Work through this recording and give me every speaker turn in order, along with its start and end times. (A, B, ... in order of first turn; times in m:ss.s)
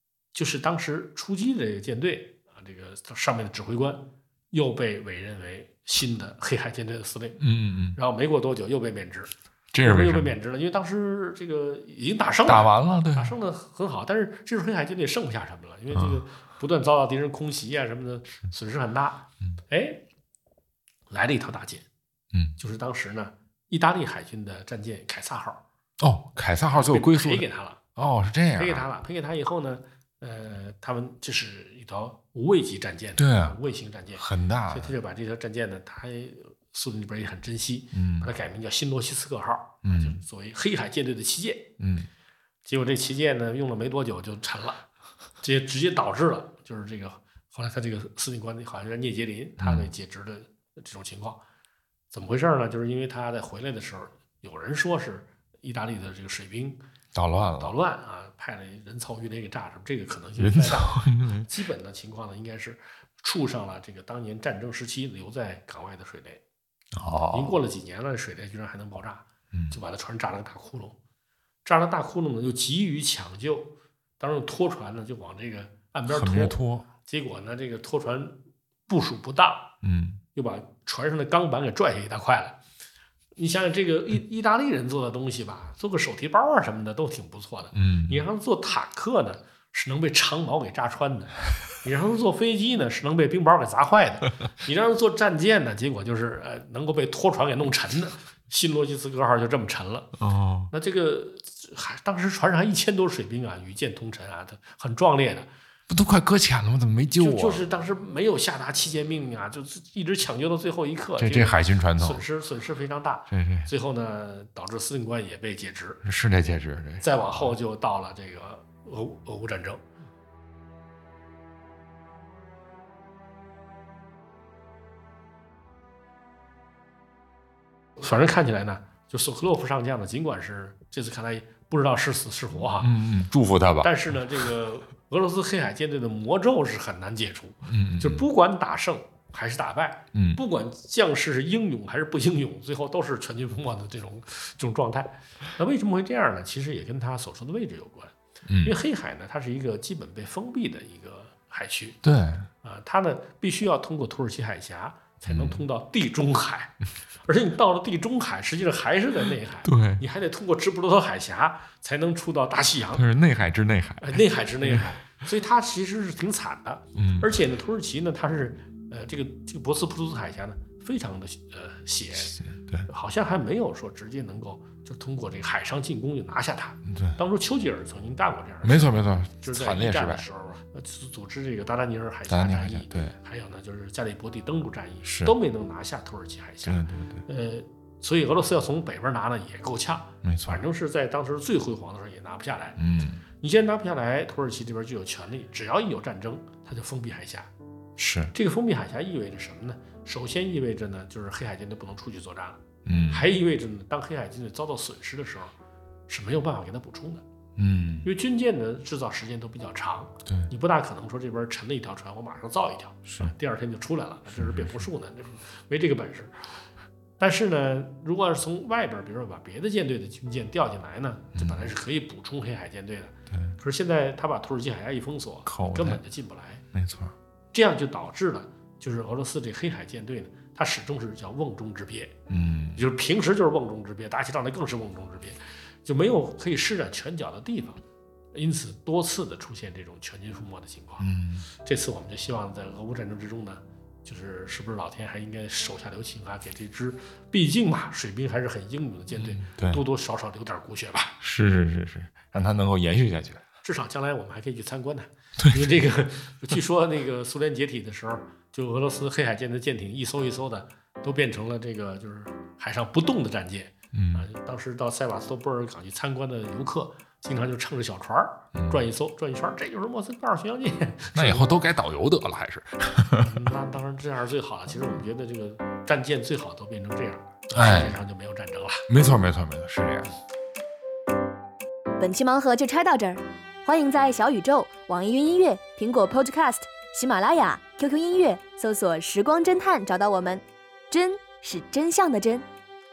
0:00.3-0:07.4 A
0:07.4-0:08.0 B
0:08.0-0:20.0 A
0:09.7-0:10.3 B
0:12.5-0:13.4 B
0:15.9-0:16.2 B
0:21.1-0:21.8 A
0:22.6-0:25.6 A
0:26.0-0:28.8 B
0:26.7-0:27.8 A
0:28.6-0:41.8 A
0:33.2-0:33.6 B
0:34.2-0:34.9 B
0:37.9-0:38.3 B
0:39.8-0:40.2 B
0:41.8-0:42.1 B
0:42.6-0:44.9 A
0:45.4-0:51.4 A
0:49.6-0:49.9 B
0:52.1-0:56.8 A
0:57.1-0:57.7 B
0:57.6-1:06.4 A
1:00.4-1:01.5 B
1:07.0-1:07.6 B
1:07.3-1:11.0 A
1:09.5-1:09.8 B
1:11.6-1:19.7 A
1:16.1-1:16.9 B
1:19.8-1:20.2 B
1:20.3-1:22.6 A
1:23.4-1:40.2 A
1:27.7-1:28.2 B
1:40.2-1:40.7 B
1:40.7-1:45.5 A
1:45.9-1:47.6 B
1:47.2-1:56.0 A
1:51.2-1:52.2 B
1:53.3-1:53.7 B
1:56.0-1:57.6 B
1:57.0-1:59.8 A
2:08.0-2:13.0 A
2:12.8-2:13.9 B
2:13.8-2:32.0 A
2:17.7-2:18.2 B
2:20.1-2:20.4 B
2:28.5-2:28.8 B
2:32.0-2:32.5 B
2:32.6-2:43.1 A
2:35.3-2:35.6 B
2:39.6-2:40.0 B
2:42.9-2:45.0 B
2:44.0-3:12.8 A
2:47.0-2:47.3 B
2:52.3-2:52.9 B
2:56.8-2:57.2 B
2:58.6-3:00.2 B
3:02.3-3:03.2 B
3:05.0-3:05.4 B
3:06.6-3:07.2 B
3:10.2-3:10.6 B
3:12.8-3:13.2 B
3:13.3-3:17.5 A
3:18.0-3:18.3 B
3:18.3-3:25.5 A
3:22.9-3:23.3 B
3:26.1-3:27.2 A
3:27.6-3:28.1 B
3:28.0-3:36.3 A
3:30.3-3:30.5 B
3:33.1-3:33.3 B
3:34.3-3:34.9 B
3:37.2-3:46.6 A
3:41.4-3:41.7 B
3:43.3-3:43.6 B
3:45.5-3:46.0 B
3:46.7-3:47.1 B
3:47.5-3:52.2 A
3:52.3-3:52.8 B
3:52.8-3:57.8 A
3:58.3-4:01.1 A
4:01.0-4:01.5 B
4:01.6-4:11.2 A
4:09.1-4:09.8 B
4:11.2-4:13.4 B
4:13.6-4:31.5 A
4:15.4-4:15.7 B
4:23.9-4:24.3 B
4:28.5-4:28.8 B
4:31.1-4:33.5 B
4:33.2-4:38.9 A
4:37.5-4:38.0 B
4:38.9-4:40.1 B
4:42.0-4:52.5 C